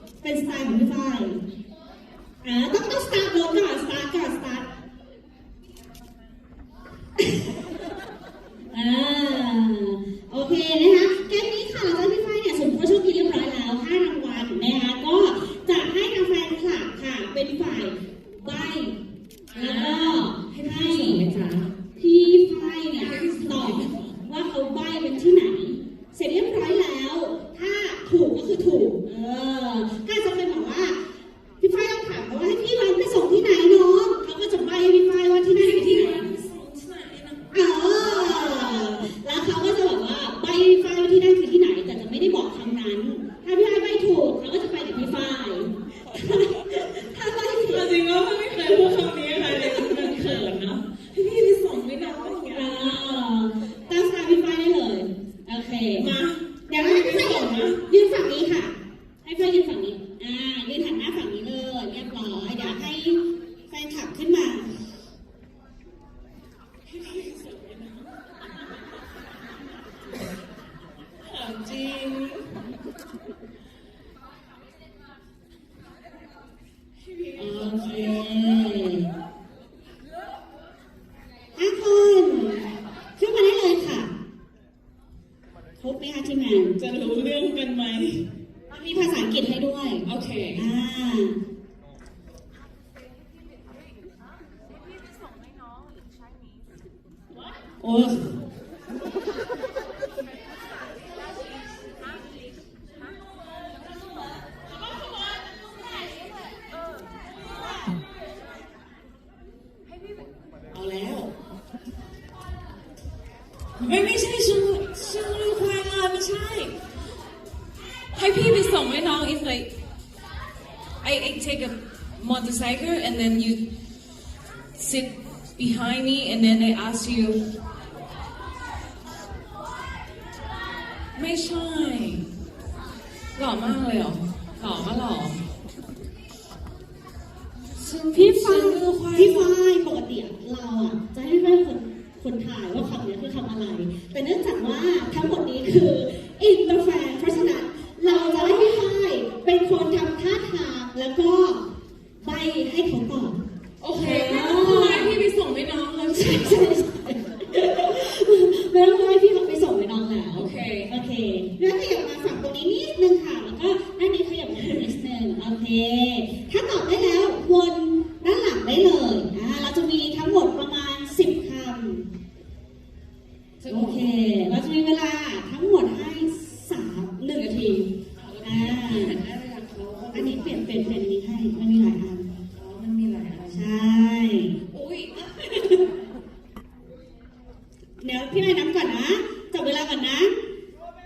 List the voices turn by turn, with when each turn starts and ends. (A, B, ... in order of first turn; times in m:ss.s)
0:00.2-0:01.4 A
0:02.4-0:04.7 A
0:08.7-0:21.2 A
0:19.5-0:21.8 B
0:22.0-0:31.0 A
0:23.0-0:24.1 B
0:31.6-0:36.2 A
0:35.5-0:37.4 B
0:37.5-0:47.8 A
0:46.7-0:53.0 B
0:49.4-0:50.5 A
0:52.5-0:56.1 A
0:55.9-0:57.8 B
0:56.7-1:04.9 A
1:06.8-1:08.1 B
1:11.2-1:12.6 B
1:17.0-1:18.4 B
1:17.4-1:19.1 A
1:21.5-1:24.1 A
1:25.8-1:26.8 A
1:26.8-1:28.3 B
1:28.7-1:31.4 A
1:30.0-1:30.6 B
1:34.7-1:36.6 B
1:37.8-1:38.4 A
1:50.7-1:51.3 B
1:53.8-1:56.8 B
1:58.1-1:59.8 B
2:01.0-2:03.6 B
2:04.7-2:07.4 B
2:11.2-2:12.3 B
2:13.4-2:15.4 B
2:17.7-2:19.5 B
2:18.1-2:31.6 A
2:32.2-2:33.4 A
2:33.8-2:36.7 B
2:33.9-2:35.2 A
2:36.1-2:52.1 A
2:40.3-2:40.9 B
2:53.6-2:54.1 B
2:53.7-2:59.2 A
2:58.2-3:00.8 B
3:00.1-3:02.3 A
3:02.5-3:03.7 B
3:03.5-3:04.6 A
3:04.7-3:05.3 B
3:05.4-3:05.8 A
3:08.0-3:10.4 A